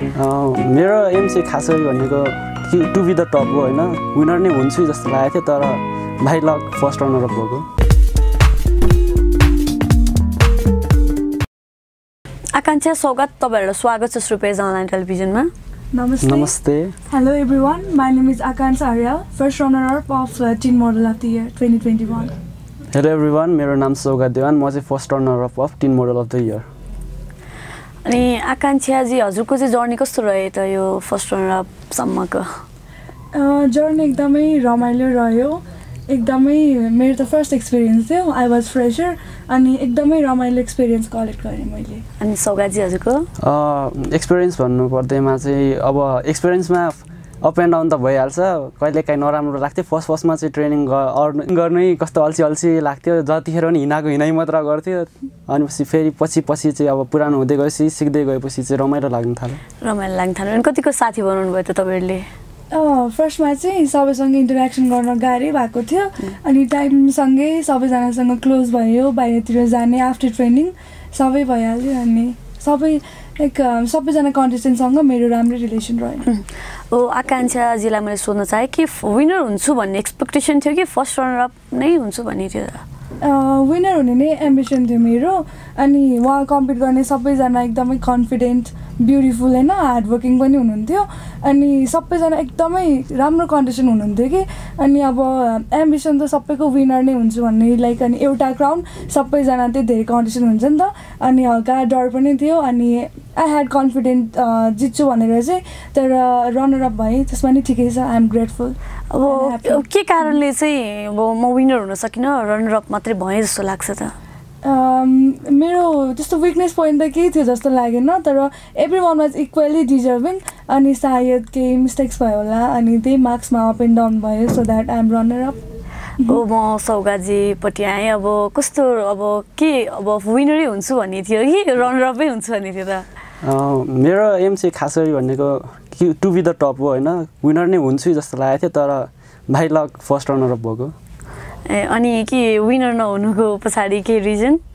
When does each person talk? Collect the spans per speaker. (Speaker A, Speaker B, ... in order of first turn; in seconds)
Speaker A: 0.1-7.7, 16.2-16.9, 22.9-26.6, 43.4-59.6, 133.4-140.9
Speaker B: 12.5-15.5, 28.0-32.5, 42.2-43.3, 59.8-62.2, 76.2-82.8, 109.1-114.1, 126.2-133.1, 141.7-144.6
Speaker C: 15.9-16.5, 17.1-22.3, 33.3-42.0, 62.7-76.3, 83.2-109.8, 114.6-125.6